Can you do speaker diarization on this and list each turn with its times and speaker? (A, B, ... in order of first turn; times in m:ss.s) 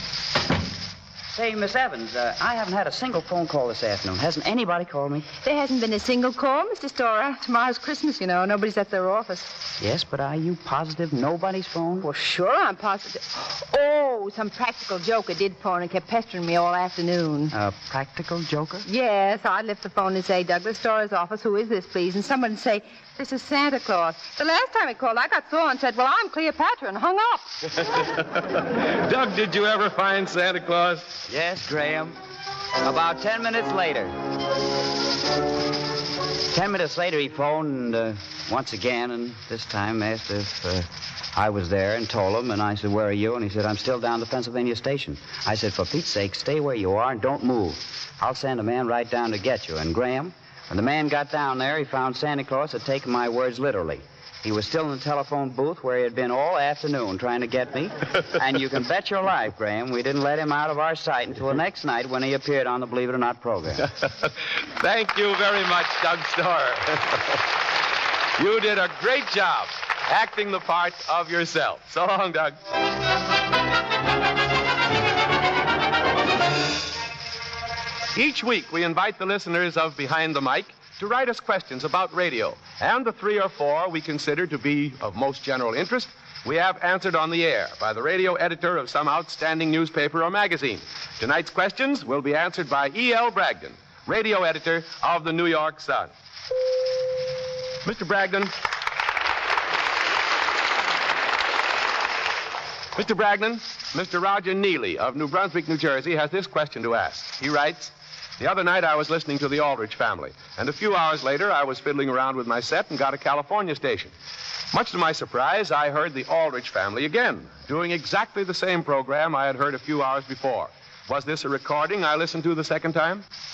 0:01.3-0:05.3 A
0:05.4-0:09.6 B
0:09.8-0:12.1 A
0:12.0-0:17.5 B
0:17.5-0:18.9 A
0:18.8-0:27.5 B
0:28.0-0:31.2 C
0:31.3-0:32.2 A
0:32.8-0:34.1 A
0:36.5-1:03.8 A
1:04.0-1:07.2 C
1:08.4-1:12.6 C
1:18.1-1:36.1 C
1:37.8-1:38.5 C
1:43.0-1:54.1 C
1:54.7-2:03.2 C